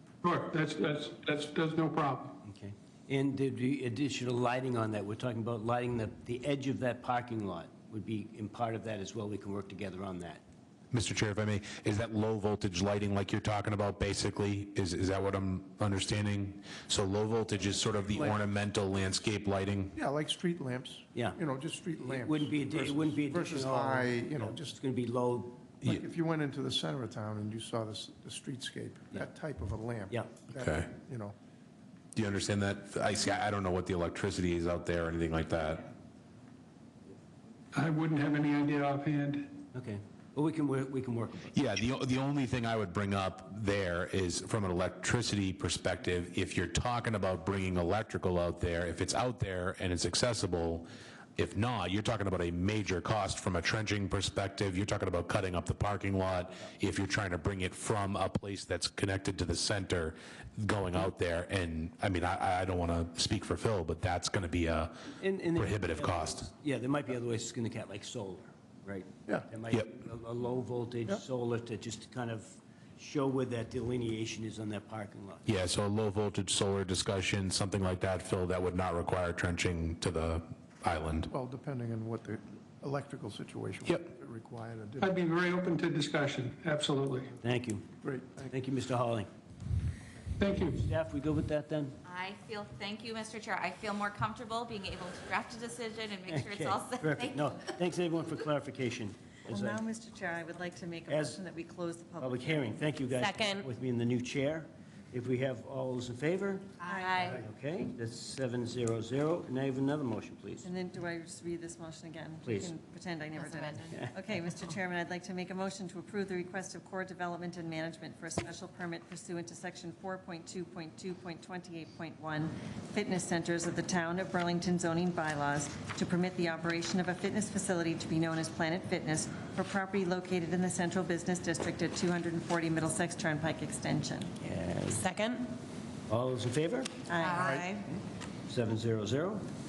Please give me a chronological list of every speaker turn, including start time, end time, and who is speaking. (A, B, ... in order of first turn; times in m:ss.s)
0:00.2-0:02.4 A
0:02.4-0:10.4 B
0:10.9-0:20.0 C
0:18.1-0:18.4 D
0:19.9-0:24.8 D
0:22.0-0:25.7 B
0:25.8-0:31.3 D
0:30.6-0:30.9 C
0:32.1-0:35.9 C
0:37.7-0:39.5 A
0:39.7-0:41.5 B
0:41.5-1:06.5 C
1:05.2-1:15.5 B
1:15.4-1:21.3 C
1:21.3-1:25.1 D
1:25.0-1:27.3 A
1:27.4-1:27.9 B
1:28.0-1:28.6 D
1:28.5-1:29.3 B
1:30.4-1:30.8 A
1:30.5-1:32.0 B
1:32.0-1:37.7 E
1:36.3-1:39.8 B
1:39.5-1:42.8 F
1:41.1-1:41.4 B
1:42.2-1:50.7 B
1:43.2-1:43.7 G
1:46.8-1:47.3 G
1:46.9-1:47.3 E
1:46.9-1:47.2 F
1:50.6-2:14.3 F
1:52.4-1:52.8 B
1:53.4-1:53.9 G
1:53.9-1:54.2 B
2:14.4-2:15.0 B
2:14.9-2:15.5 G
2:16.1-2:16.9 B
2:17.1-2:17.4 F
2:17.2-2:17.8 G
2:17.3-2:17.7 D
2:18.5-2:19.4 B